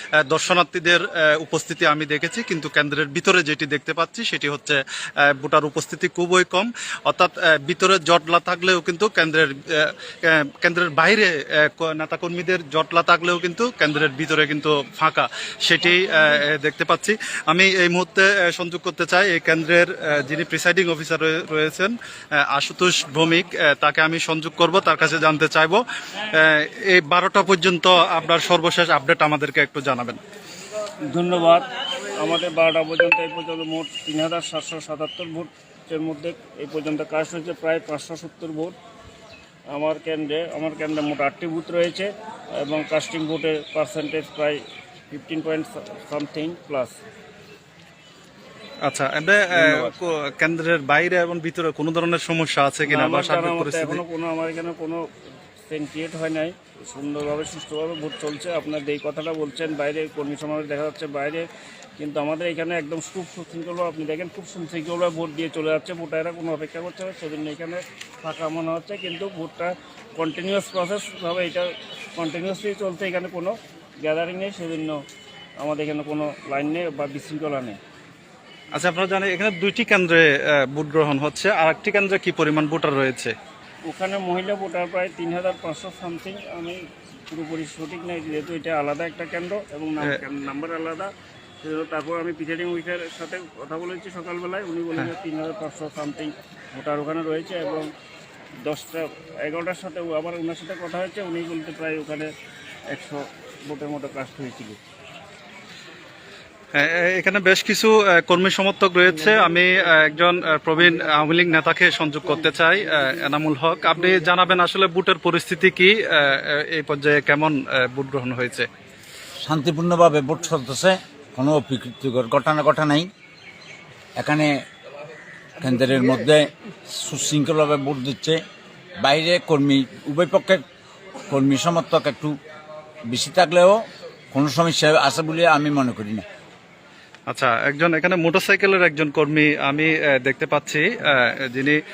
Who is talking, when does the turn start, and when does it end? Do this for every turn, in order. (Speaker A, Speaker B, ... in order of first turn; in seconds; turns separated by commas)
Speaker A: 0.2-21.9, Speaker A: 22.5-30.2, Speaker B: 31.1-31.7, Speaker B: 32.2-38.8, Speaker B: 39.7-44.6, Speaker B: 45.1-46.9, Speaker A: 48.9-54.0, Speaker B: 49.6-50.0, Speaker B: 52.9-55.0, Speaker B: 55.7-61.5, Speaker B: 62.0-75.0, Speaker B: 75.6-77.8, Speaker A: 78.8-83.3, Speaker B: 83.9-86.8, Speaker B: 87.3-91.1, Speaker B: 91.6-97.9, Speaker B: 98.6-102.3, Speaker B: 102.9-104.8, Speaker A: 106.8-118.7, Speaker C: 119.4-123.1, Speaker C: 124.2-124.5, Speaker C: 125.6-128.4, Speaker C: 129.0-130.6, Speaker C: 131.3-132.3, Speaker C: 133.1-133.8, Speaker C: 134.3-136.2, Speaker A: 137.3-141.8